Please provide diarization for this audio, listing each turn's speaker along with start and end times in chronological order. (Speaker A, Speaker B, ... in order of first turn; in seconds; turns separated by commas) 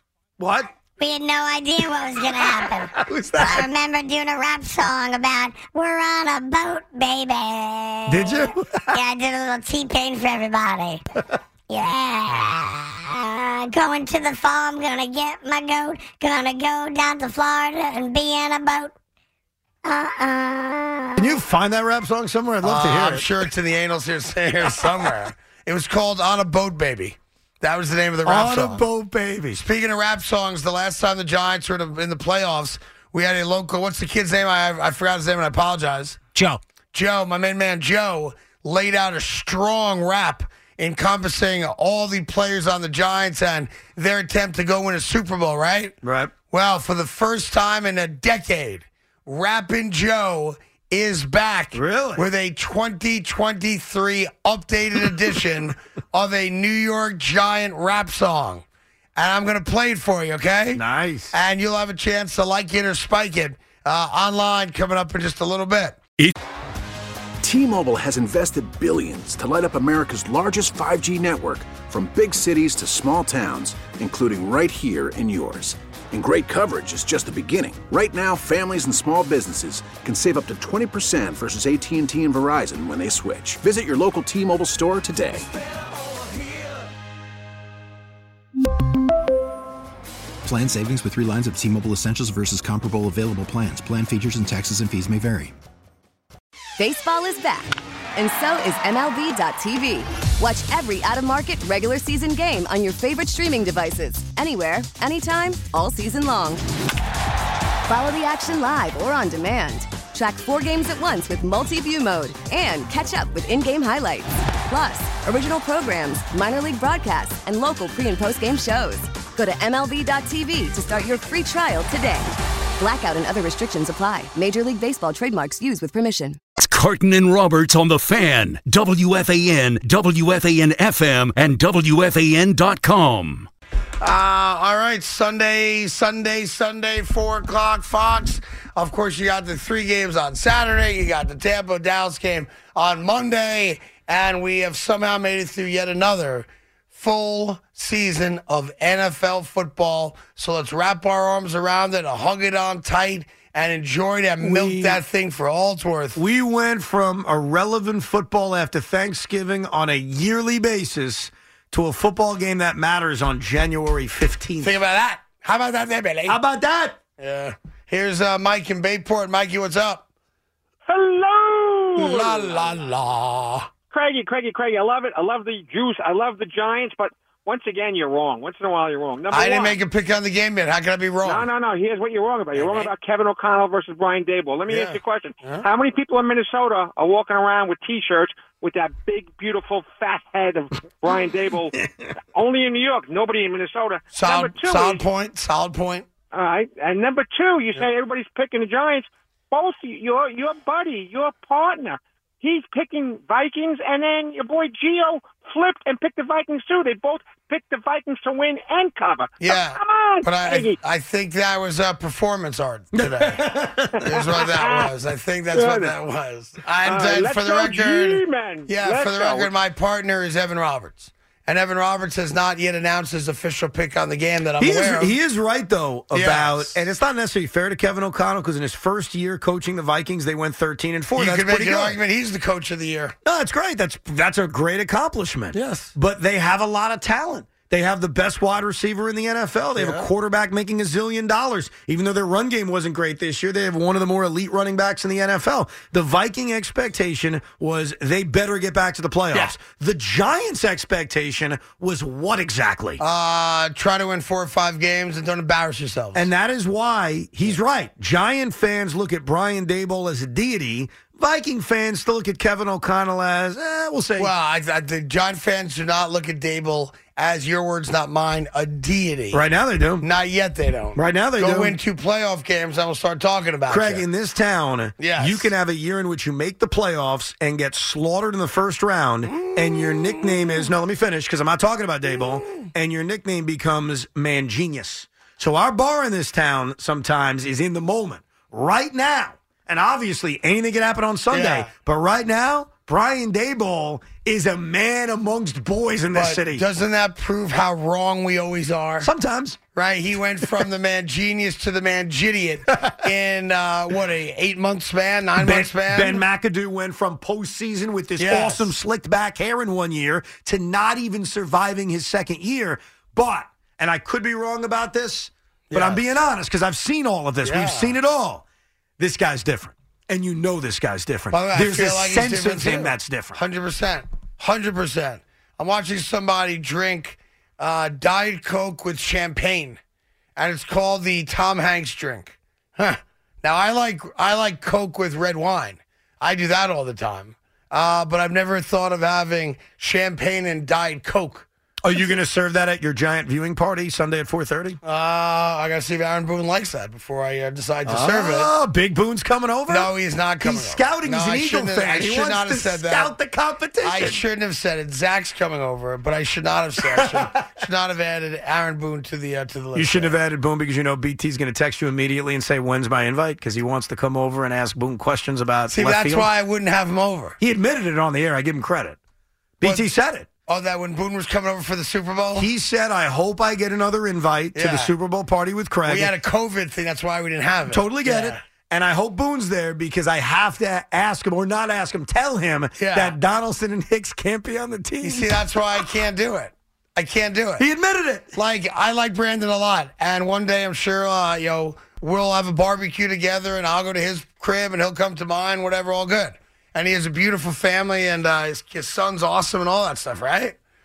Speaker A: 0.4-0.7, Speaker B: 1.0-11.0, Speaker A: 2.9-3.7, Speaker A: 8.1-9.0, Speaker B: 11.7-18.9, Speaker B: 19.8-21.3, Speaker A: 21.2-23.3, Speaker C: 22.6-28.8, Speaker A: 28.2-29.6, Speaker C: 29.5-36.2, Speaker C: 36.9-45.9, Speaker A: 46.0-46.3, Speaker C: 46.5-58.6, Speaker A: 51.7-52.2, Speaker C: 59.1-66.0, Speaker A: 60.7-61.3, Speaker D: 67.4-85.5, Speaker E: 90.4-95.5, Speaker F: 96.8-106.6, Speaker F: 107.8-126.4, Speaker G: 126.6-133.5, Speaker C: 134.0-156.2, Speaker A: 154.4-155.0, Speaker A: 156.2-164.8, Speaker C: 164.6-166.4, Speaker A: 166.3-167.0, Speaker C: 167.2-170.0, Speaker H: 170.9-172.8, Speaker C: 171.9-173.7, Speaker H: 173.9-179.8, Speaker C: 179.3-181.5, Speaker H: 181.2-191.8, Speaker C: 182.6-182.9, Speaker C: 184.7-185.7, Speaker H: 192.3-195.0, Speaker C: 194.1-196.1, Speaker H: 196.3-210.8, Speaker C: 209.4-213.5, Speaker A: 212.9-214.3, Speaker C: 214.0-225.1, Speaker H: 214.1-214.9, Speaker H: 215.5-216.0, Speaker H: 216.8-219.5, Speaker A: 224.6-232.0, Speaker C: 226.1-226.8, Speaker C: 231.2-233.1, Speaker A: 233.2-253.0, Speaker C: 235.5-235.9, Speaker C: 239.8-240.1, Speaker C: 253.0-256.3, Speaker A: 256.1-264.3, Speaker C: 264.2-269.4, Speaker A: 269.3-270.1, Speaker C: 270.0-274.0, Speaker A: 270.9-271.8, Speaker A: 273.7-296.6, Speaker C: 275.0-275.5, Speaker C: 291.3-291.7, Speaker C: 296.1-299.1, Speaker A: 299.0-299.6, Speaker C: 299.7-306.2, Speaker A: 305.4-318.4, Speaker C: 308.2-308.7, Speaker C: 315.7-316.2, Speaker C: 317.4-318.0, Speaker A: 319.0-323.4, Speaker C: 321.3-329.8, Speaker C: 330.4-341.4, Speaker A: 341.8-344.8, Speaker C: 344.8-348.5, Speaker A: 347.9-354.2, Speaker C: 349.7-353.1, Speaker C: 353.8-360.2, Speaker A: 356.8-357.5, Speaker A: 359.7-366.3, Speaker C: 365.7-367.4, Speaker A: 367.4-369.0, Speaker A: 369.6-370.3, Speaker C: 369.6-369.9, Speaker C: 370.5-372.5, Speaker A: 372.4-376.1, Speaker C: 374.5-374.9, Speaker C: 375.9-378.4, Speaker A: 377.7-385.4, Speaker C: 382.8-383.2, Speaker C: 385.0-387.6, Speaker A: 387.6-388.3, Speaker C: 388.3-400.6